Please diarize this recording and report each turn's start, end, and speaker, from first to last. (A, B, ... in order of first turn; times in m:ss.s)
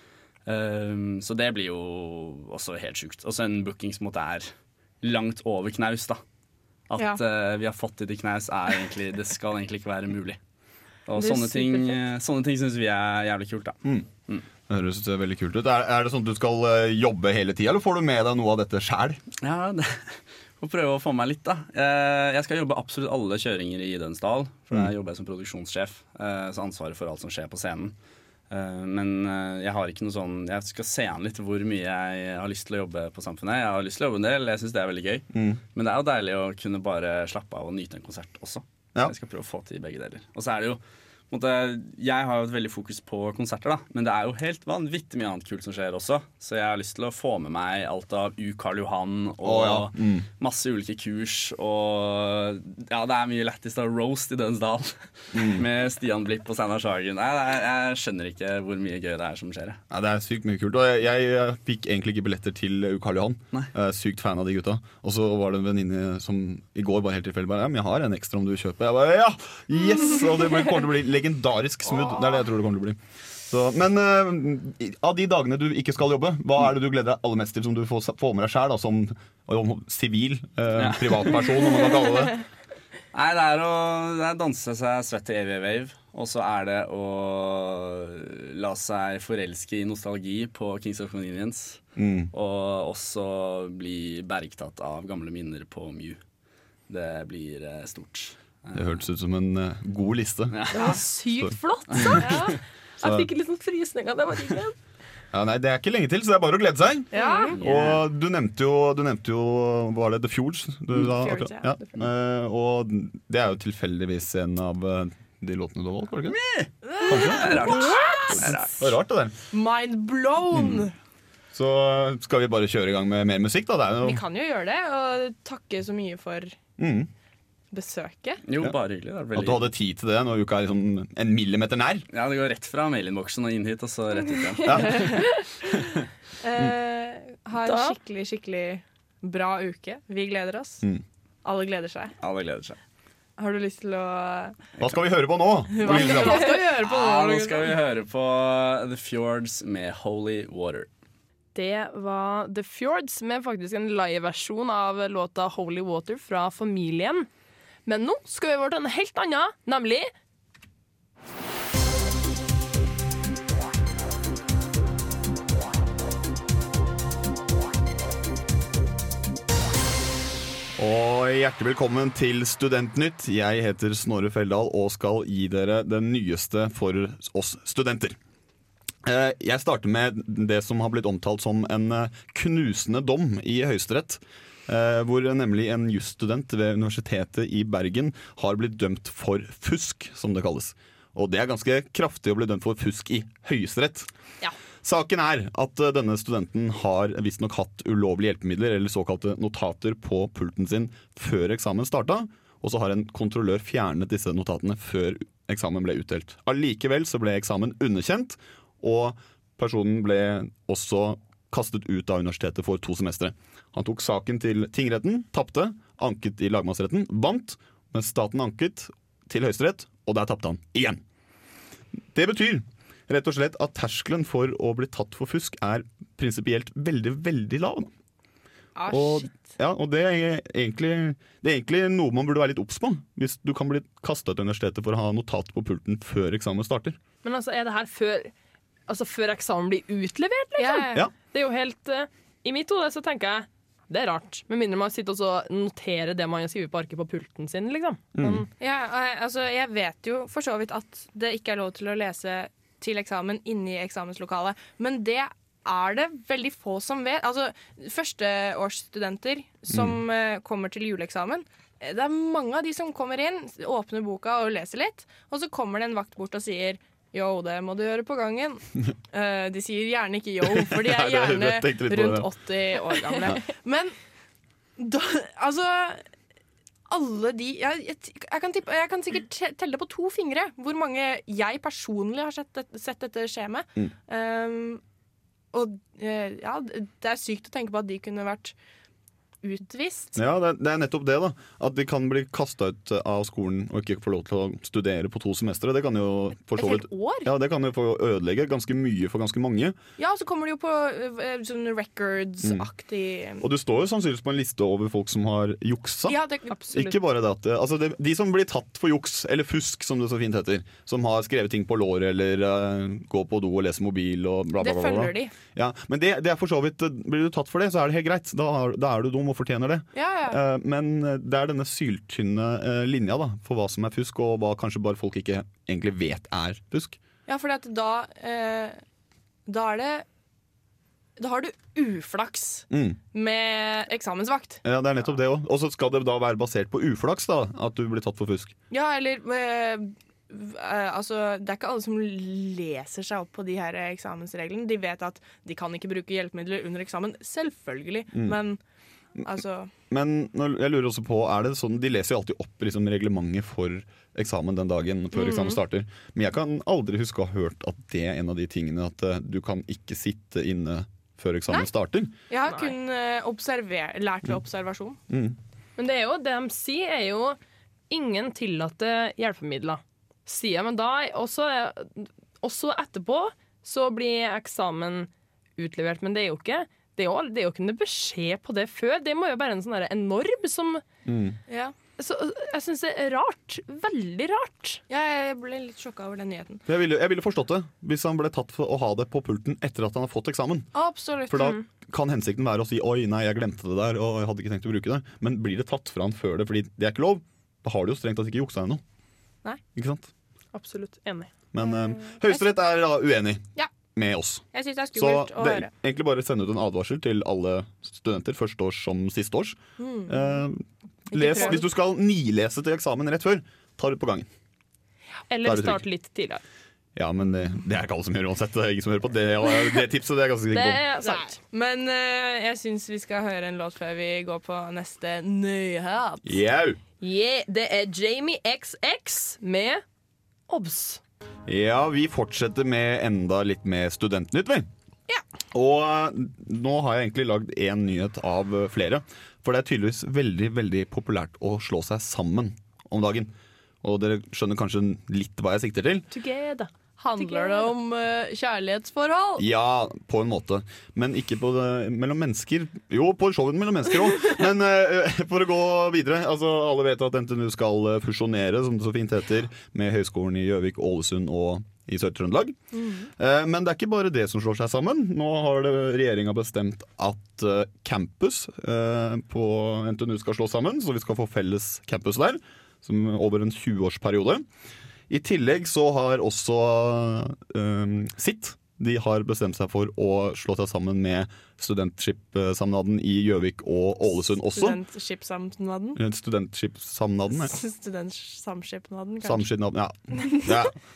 0:00.4-0:06.2 A
0:06.9-0:10.4 A
0:11.0-0:13.8 A
0:11.2-0:12.0 B
0:14.7-0:19.2 C
0:19.4-0:27.9 A
0:28.5-0:59.8 A
0:35.3-0:35.6 C
0:49.4-0:50.3 C
0:55.3-0:55.6 C
0:59.9-1:22.4 C
1:20.8-1:21.4 A
1:23.1-1:36.2 A
1:32.0-1:32.3 C
1:36.9-1:38.8 A
1:38.7-1:40.7 C
1:40.5-1:41.0 A
1:40.7-1:44.8 B
1:41.4-1:42.4 C
1:41.9-1:42.2 A
1:42.2-1:42.5 D
1:45.3-1:56.4 C
1:47.1-1:47.6 D
1:47.2-1:47.5 B
1:47.6-1:48.0 A
1:51.0-1:51.7 D
1:56.3-1:58.9 A
1:56.8-1:58.5 D
1:57.0-1:59.3 C
1:57.6-1:58.3 B
1:59.5-2:00.9 D
2:00.5-2:00.8 C
2:01.5-2:04.2 C
2:04.0-2:06.6 D
2:06.8-2:07.1 C
2:07.7-2:08.4 D
2:08.4-2:09.7 A
2:09.3-2:12.0 C
2:12.1-2:15.1 A
2:14.6-2:15.2 C
2:14.7-2:15.3 D
2:16.4-2:20.8 D
2:17.6-2:18.0 B
2:21.4-2:22.1 D
2:22.2-2:22.8 A
2:23.4-2:24.6 D
2:24.8-2:26.6 C
2:25.7-2:27.8 D
2:26.8-2:30.9 A
2:31.5-2:37.3 B
2:37.8-2:40.1 B
2:50.8-2:58.2 C
2:59.0-3:14.1 C
3:14.8-3:41.0 C
3:42.1-3:47.9 C
3:48.8-3:49.5 D
3:48.9-3:57.0 C
3:57.2-3:58.3 B
3:58.9-4:08.5 B
4:00.6-4:01.0 D
4:08.1-4:08.4 C
4:08.6-4:33.9 D
4:19.7-4:20.0 C
4:30.4-4:32.3 C
4:34.8-4:36.0 D
4:36.9-4:44.8 D
4:45.5-4:48.5 D
4:49.4-4:50.2 D
4:50.2-4:59.8 C
4:56.6-4:56.9 D
5:00.0-5:03.4 D
5:03.4-5:06.2 C
5:06.1-5:06.5 D
5:06.5-5:07.0 B
5:06.7-5:27.0 C
5:14.6-5:15.3 D
5:19.9-5:20.4 D
5:27.2-5:28.8 D
5:29.5-5:30.0 D
5:31.2-5:34.6 D
5:32.7-5:33.0 C
5:34.6-5:38.5 C
5:38.7-5:48.6 D
5:48.1-5:48.4 C
5:49.2-5:49.7 D
5:49.9-6:02.1 C
5:55.2-5:55.5 B
6:02.3-6:05.0 D
6:02.4-6:02.7 B
6:05.1-6:05.4 C
6:05.8-6:07.4 B
6:07.9-6:20.8 B
6:21.0-6:21.4 C
6:21.5-6:21.7 D
6:22.0-6:24.8 B
6:24.9-6:26.6 D
6:26.7-6:30.7 C
6:30.7-6:31.6 D
6:31.3-6:38.8 C
6:39.7-6:40.1 C
6:40.5-6:41.3 B
6:41.5-6:54.3 C
6:44.5-6:45.7 D
6:49.8-6:50.3 D
6:51.1-6:51.7 D
6:55.3-6:56.4 B
6:55.4-6:55.8 C
6:57.0-7:00.8 C
7:00.5-7:01.4 B
7:01.0-7:06.4 D
7:06.2-7:06.8 C
7:07.0-7:09.8 B
7:10.5-7:11.0 B
7:11.5-7:14.7 C
7:15.5-7:26.0 C
7:26.1-7:27.7 B
7:27.0-7:29.4 D
7:29.4-7:42.6 C
7:42.7-7:43.1 D
7:43.2-7:54.4 C
7:55.1-8:04.8 C
8:04.6-8:06.0 D
8:06.0-8:07.5 C
8:07.3-8:09.5 D
8:09.2-8:10.7 C
8:10.2-8:10.4 D